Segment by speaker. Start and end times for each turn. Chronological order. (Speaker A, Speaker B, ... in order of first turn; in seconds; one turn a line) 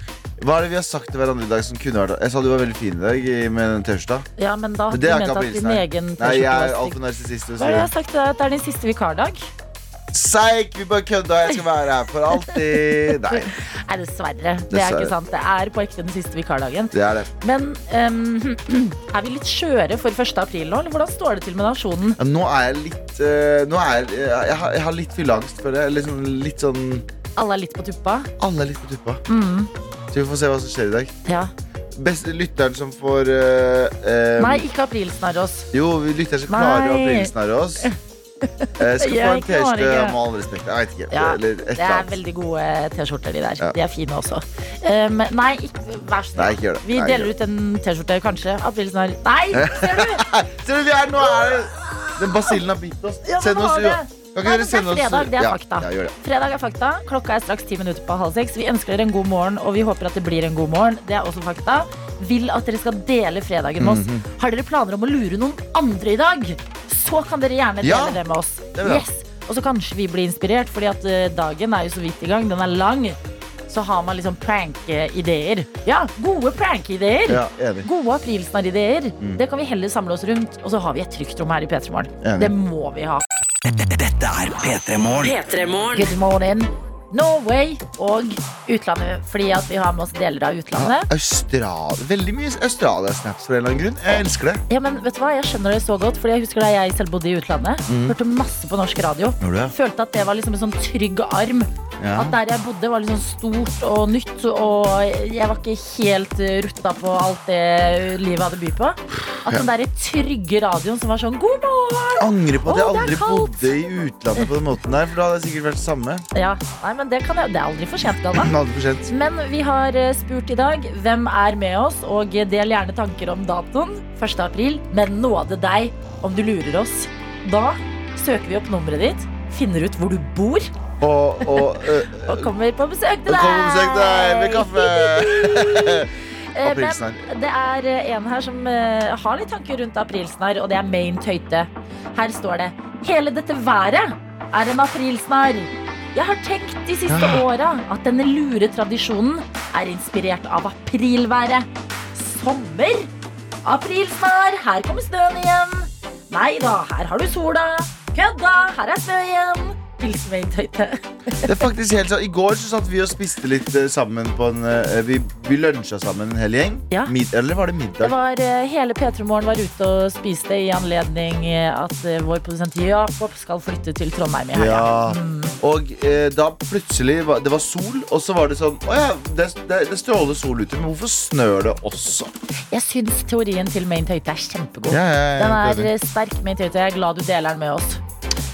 Speaker A: 0.4-4.3
Speaker B: 4.4-7.0
Speaker A: 4.9-7.9
Speaker B: 7.6-9.5
Speaker A: 10.1-13.5
Speaker B: 13.1-22.2
Speaker A: 14.7-15.1
Speaker A: 16.9-17.3
Speaker A: 22.2-27.1
Speaker B: 27.4-28.3
Speaker A: 28.4-29.2
Speaker B: 29.3-29.7
Speaker A: 30.1-31.1
Speaker B: 31.2-31.5
Speaker A: 31.9-34.6
Speaker B: 34.4-35.7
Speaker A: 35.7-37.9
Speaker B: 36.5-40.2
Speaker A: 38.8-42.1
Speaker B: 41.1-50.2
Speaker A: 46.4-47.3
Speaker A: 49.5-56.1
Speaker B: 51.2-52.5
Speaker B: 53.2-83.2
Speaker A: 63.8-64.2
Speaker A: 67.8-68.2
Speaker A: 68.7-69.0
Speaker A: 77.3-77.9
Speaker A: 82.2-82.5
Speaker C: 83.7-86.1
Speaker B: 85.9-91.1
Speaker A: 90.7-94.6
Speaker B: 94.7-113.6
Speaker A: 97.9-98.2
Speaker A: 99.4-99.7
Speaker A: 102.0-102.4
Speaker A: 112.2-116.2
Speaker B: 116.3-118.5
Speaker A: 118.3-119.1
Speaker B: 119.1-130.7
Speaker A: 131.0-132.5
Speaker B: 131.4-153.1
Speaker A: 133.2-136.1
Speaker A: 136.6-137.3
Speaker A: 147.1-147.4
Speaker B: 153.6-161.5
Speaker A: 161.4-168.1
Speaker B: 168.0-175.6
Speaker A: 174.5-182.3
Speaker B: 182.7-188.0
Speaker A: 184.9-185.9